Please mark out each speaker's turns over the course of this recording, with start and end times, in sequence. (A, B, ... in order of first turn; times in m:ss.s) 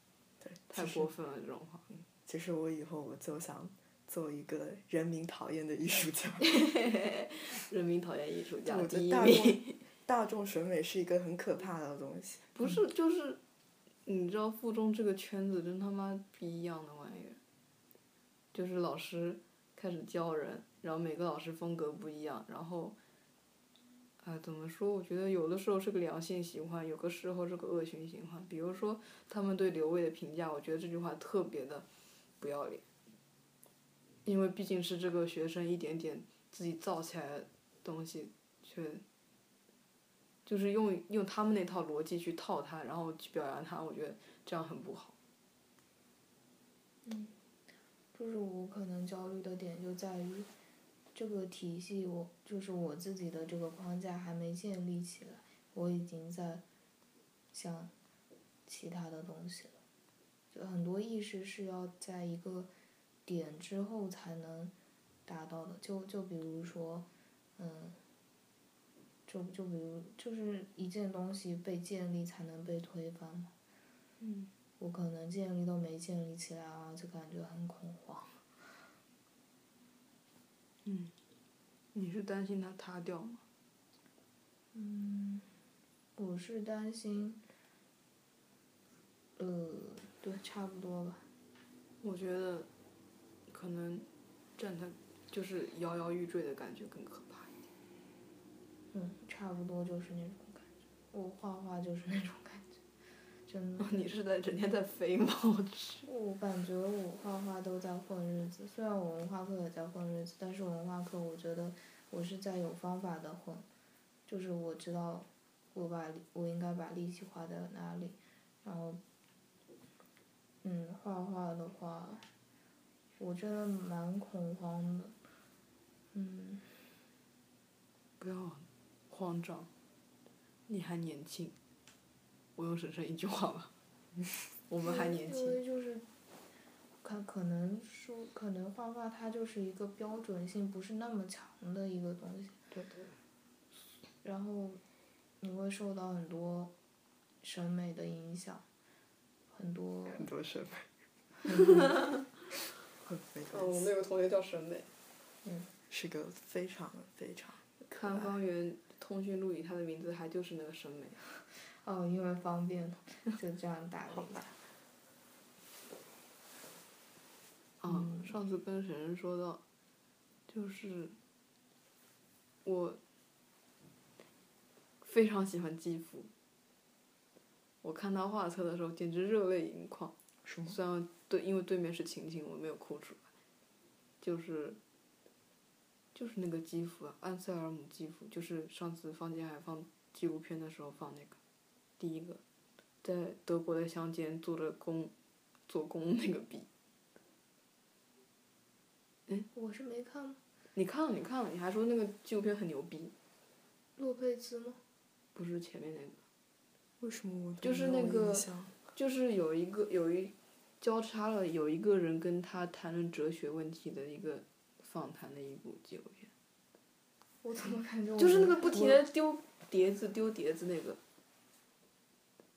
0:00.4-0:01.1 A
0:00.7-0:01.8 B
0:01.9-0:06.5 A
0:06.4-0:09.8 B
0:08.6-0:12.5 A
0:12.6-0:13.4 B
0:14.1-0:17.4 B
0:18.5-0:23.0 B
0:24.2-0:31.9 B
0:32.4-0:32.8 B
0:34.2-0:39.0 B
0:40.4-0:45.2 B
0:47.0-0:47.4 C
0:48.1-0:50.5 C
0:51.1-0:56.6 C
0:57.5-0:57.9 C
0:58.7-0:59.8 C
1:00.5-1:02.7 C
1:03.3-1:04.7 C
1:05.3-1:08.0 C
1:09.3-1:13.5 C
1:14.2-1:14.5 B
1:14.8-1:18.5 C
1:20.8-1:21.1 B
1:21.9-1:23.4 B
1:24.7-1:25.5 C
1:26.2-1:27.4 C
1:29.4-1:31.3 C
1:32.0-1:32.7 B
1:33.5-1:37.5 B
1:38.9-1:42.8 C
1:43.4-1:44.1 C
1:43.8-1:46.1 B
1:46.1-1:53.7 C
1:54.3-1:59.0 C
2:00.6-2:02.3 C
2:03.2-2:05.1 C
2:06.1-2:06.8 C
2:08.2-2:09.7 B
2:10.7-2:11.6 B
2:12.6-2:13.7 B
2:14.7-2:15.6 B
2:14.8-2:16.1 C
2:17.0-2:22.6 C
2:22.7-2:23.1 B
2:24.2-2:24.8 C
2:25.4-2:26.7 C
2:27.4-2:28.6 C
2:29.5-2:30.3 C
2:30.1-2:30.9 A
2:31.5-2:31.9 A
2:33.0-2:33.9 A
2:33.5-2:34.9 B
2:35.4-2:35.7 C
2:35.9-2:38.3 A
2:37.9-2:41.2 B
2:41.8-2:44.6 C
2:47.8-2:49.6 B
2:47.9-2:48.3 C
2:50.5-2:51.2 B
2:52.6-2:53.0 B
2:55.0-2:56.3 B
2:57.8-3:00.1 B
3:00.4-3:00.8 A
3:00.7-3:03.3 B
3:04.2-3:04.8 B
3:06.1-3:11.4 B
3:12.0-3:12.4 B
3:13.0-3:15.1 B
3:15.7-3:16.7 B
3:19.5-3:20.4 C
3:20.8-3:23.1 B
3:24.0-3:24.8 C
3:25.4-3:26.2 B
3:27.0-3:28.8 A
3:27.6-3:36.3 B
3:37.4-3:39.0 C
3:38.2-3:41.0 B